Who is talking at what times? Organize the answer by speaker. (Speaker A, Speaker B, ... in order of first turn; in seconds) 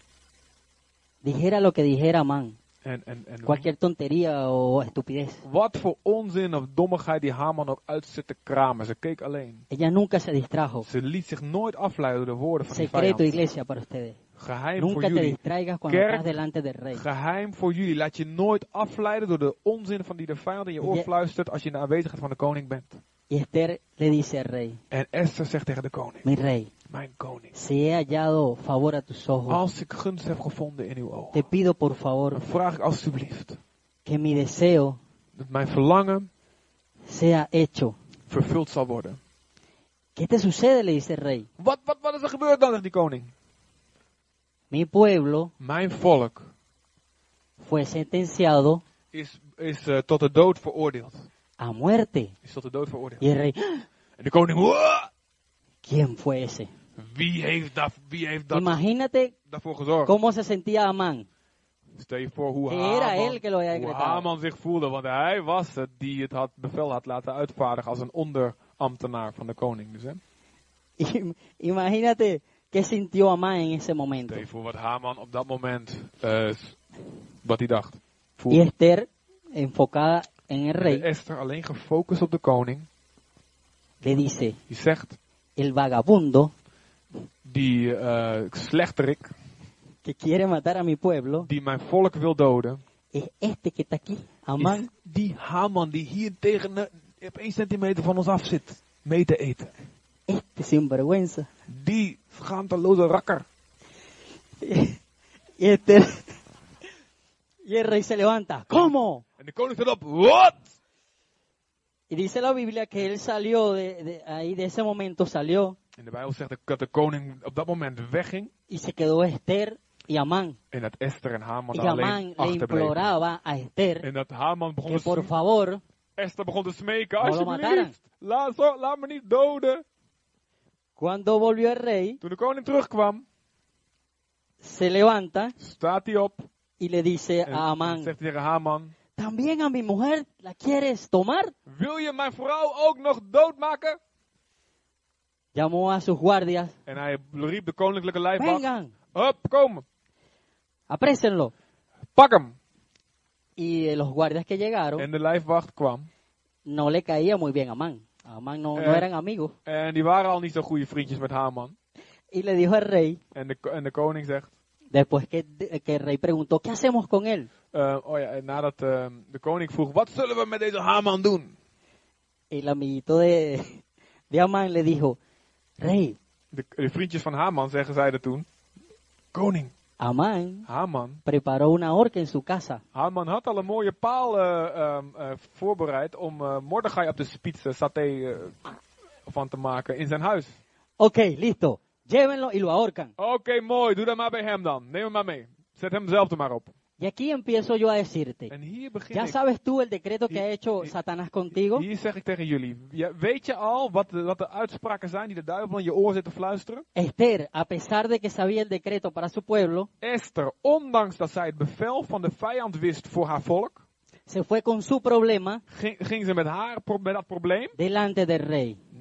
Speaker A: 1.2-2.6, 3.5-5.4, 9.7-10.9, 12.7-14.2, 14.8-17.0, 20.8-21.1, 23.3-24.8, 26.2-26.7, 27.5-29.6, 31.3-32.4, 34.0-35.0, 37.1-38.0, 40.2-41.5, 44.7-45.5, 47.6-48.8, 51.6-52.3, 53.2-53.9, 55.8-56.7, 58.5-59.3, 60.1-61.3, 62.7-64.3, 71.0-74.4, 78.5-81.1, 84.0-84.6, 85.6-86.5, 90.0-91.5, 93.1-94.9, 100.3-101.5, 104.6-105.0, 105.6-106.4, 107.7-109.2, 112.1-115.8, 118.7-120.6, 121.7-124.1, 124.9-125.8, 127.2-128.0, 131.0-132.2, 134.6-135.6, 136.8-138.1, 139.2-141.5, 145.6-146.8, 148.4-148.9, 150.9-151.5, 153.6-155.1, 156.7-159.5, 162.3-163.2, 164.9-167.5, 172.5-175.2, 175.8-176.2, 180.0-180.7, 181.2-182.8, 191.0-193.1, 197.0-198.5, 199.1-201.8, 206.9-209.9, 214.3-215.6, 217.8-218.8
Speaker B: 2.8-3.7, 5.4-9.6, 10.8-13.4, 14.4-16.3, 16.9-23.0, 24.9-26.3, 26.9-27.5, 29.5-31.5, 32.3-33.6, 35.4-36.3, 38.3-39.2, 41.6-43.3, 45.6-46.5, 49.1-51.3, 52.4-53.2, 54.2-55.1, 57.0-58.8, 59.5-60.1, 62.0-70.2, 74.2-76.8, 77.4-78.7, 80.8-82.9, 84.7-85.2, 87.4-89.3, 91.4-92.8, 94.6-99.7, 101.7-103.5, 109.4-110.7, 116.0-118.5, 120.7-123.0, 124.0-125.3, 126.2-129.8, 132.2-133.2, 135.6-136.5, 137.5-138.9, 141.7-144.0, 146.9-149.8, 152.2-152.6, 155.0-156.1, 158.8-159.1, 159.7-161.8, 163.3-164.5, 167.7-171.5, 176.5-178.5, 179.3-179.7, 180.7-181.2, 182.9-188.6, 189.3-190.6, 193.2-196.7, 198.5-199.4, 200.3-200.9, 201.6-206.8, 210.0-213.8, 215.7-217.8